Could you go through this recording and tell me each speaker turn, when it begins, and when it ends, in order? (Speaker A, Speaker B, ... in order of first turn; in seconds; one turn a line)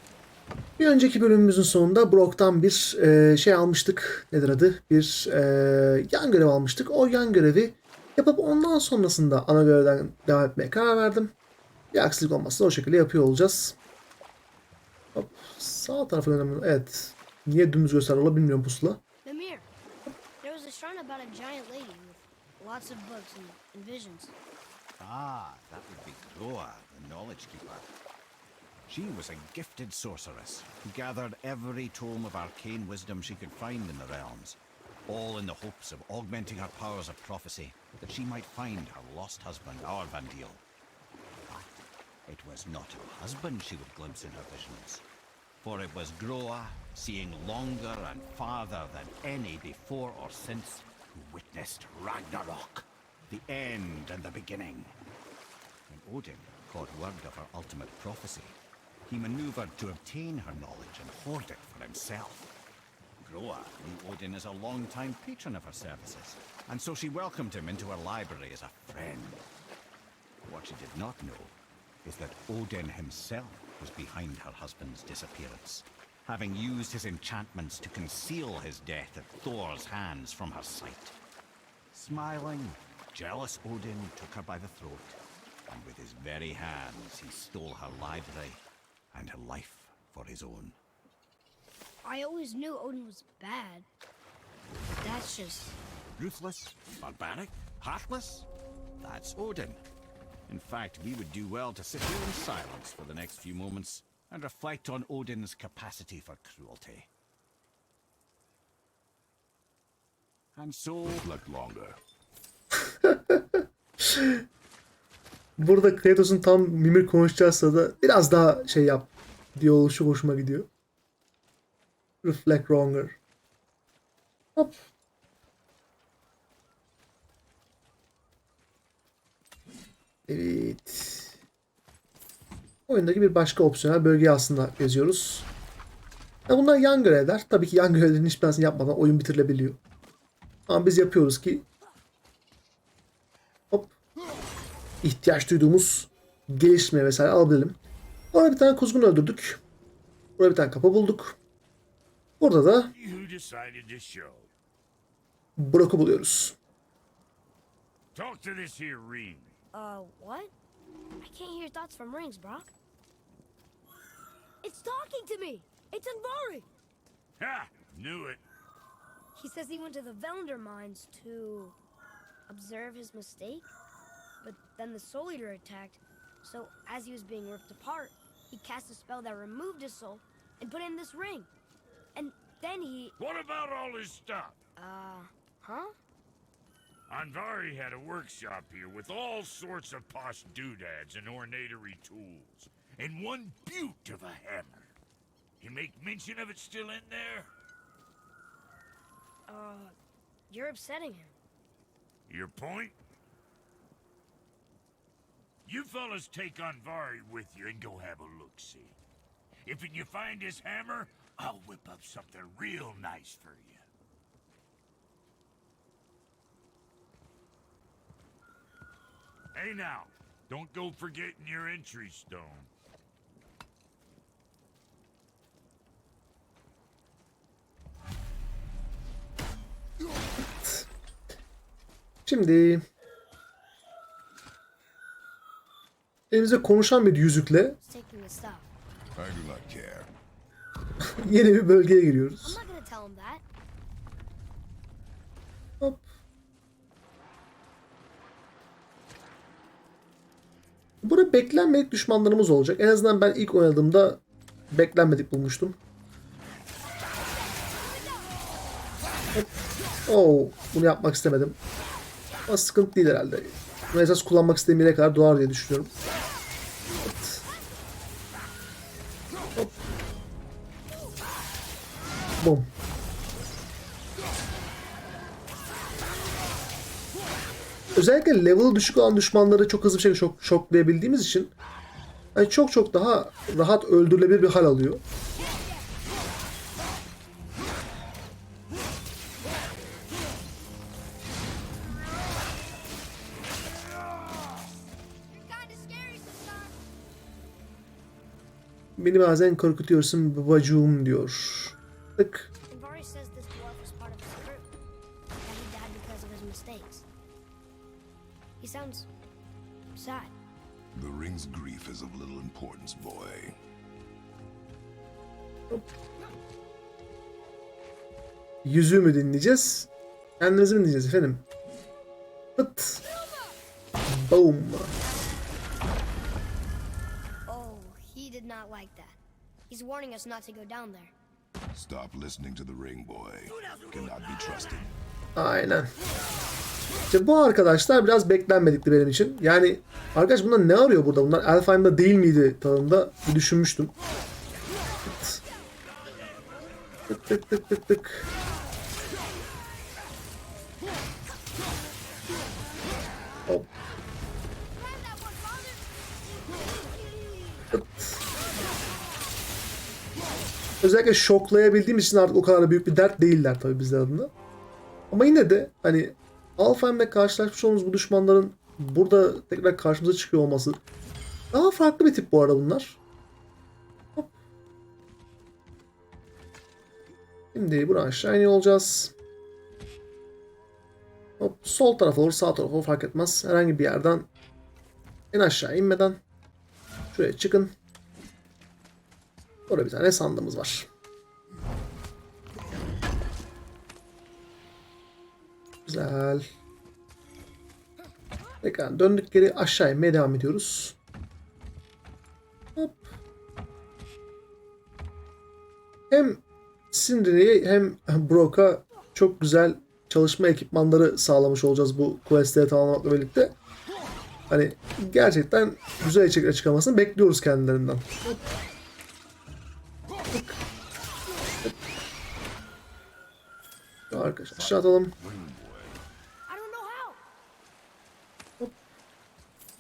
Speaker A: 0.8-11.3
Speaker A: 11.9-13.8
Speaker A: 15.2-19.0
Speaker B: 19.2-19.7
Speaker B: 20.4-24.3
Speaker C: 25.0-27.9
Speaker C: 28.9-40.6
Speaker C: 41.5-45.0
Speaker C: 45.6-54.9
Speaker C: 55.9-62.5
Speaker C: 63.2-69.4
Speaker C: 70.5-81.2
Speaker C: 81.9-90.8
Speaker B: 92.0-93.9
Speaker B: 95.0-95.8
Speaker C: 96.2-98.5
Speaker C: 99.0-99.8
Speaker C: 100.5-107.1
Speaker C: 110.5-111.3
Speaker D: 111.2-112.0
Speaker A: 112.9-114.4
Speaker A: 115.6-120.7
Speaker A: 122.2-123.2
Speaker A: 130.3-131.3
Speaker A: 132.9-135.5
Speaker A: 136.5-139.8
Speaker A: 140.7-141.7
Speaker A: 145.0-147.8
Speaker A: 148.3-149.6
Speaker A: 150.4-151.4
Speaker A: 152.4-152.9
Speaker E: 153.0-154.5
Speaker A: 155.6-156.6
Speaker E: 158.2-159.5
Speaker B: 159.7-160.5
Speaker B: 161.2-162.7
Speaker B: 164.6-166.7
Speaker E: 167.4-168.4
Speaker B: 169.4-171.8
Speaker B: 172.5-173.7
Speaker B: 174.4-181.5
Speaker B: 182.2-183.2
Speaker E: 183.2-184.6
Speaker B: 184.8-185.9
Speaker E: 187.1-194.9
Speaker E: 195.6-197.5
Speaker B: 199.5-199.9
Speaker B: 200.5-201.3
Speaker E: 202.3-203.0
Speaker E: 205.7-209.0
Speaker E: 209.7-213.8
Speaker E: 219.6-222.7
Speaker A: 230.4-230.9
Speaker A: 232.3-232.8
Speaker A: 236.3-237.8
Speaker B: 237.8-238.7
Speaker D: 239.2-240.1
Speaker A: 241.2-242.6
Speaker B: 242.4-243.4
Speaker A: 251.0-255.8
Speaker A: 260.1-261.6
Speaker A: 262.5-265.9
Speaker A: 267.0-267.5
Speaker A: 272.4-272.7
Speaker A: 277.9-281.5
Speaker A: 282.4-285.0
Speaker B: 295.3-296.7
Speaker A: 299.0-302.5
Speaker B: 302.7-304.7
Speaker B: 305.4-307.1
Speaker B: 308.6-309.1
Speaker B: 310.0-310.3
Speaker D: 310.9-313.6
Speaker A: 318.6-319.9
Speaker A: 320.4-321.4
Speaker A: 322.6-323.0
Speaker A: 324.1-324.9
Speaker B: 327.5-329.2
Speaker B: 329.7-331.1
Speaker D: 331.7-334.9
Speaker A: 335.4-335.9
Speaker A: 337.1-343.9
Speaker A: 345.0-345.4
Speaker A: 347.1-348.3
Speaker B: 354.9-355.7
Speaker B: 356.8-357.7
Speaker A: 357.7-358.2
Speaker A: 360.8-364.3
Speaker A: 365.1-370.8
Speaker A: 371.5-373.0
Speaker A: 377.5-379.1
Speaker A: 381.4-384.3
Speaker A: 385.3-386.2
Speaker A: 387.1-387.7
Speaker A: 389.7-390.9
Speaker A: 395.9-396.5
Speaker A: 398.6-401.0
Speaker A: 402.8-403.1
Speaker A: 406.1-413.6
Speaker A: 414.5-418.4
Speaker A: 420.3-420.6
Speaker A: 424.1-425.1
Speaker D: 424.5-426.0
Speaker B: 426.5-427.2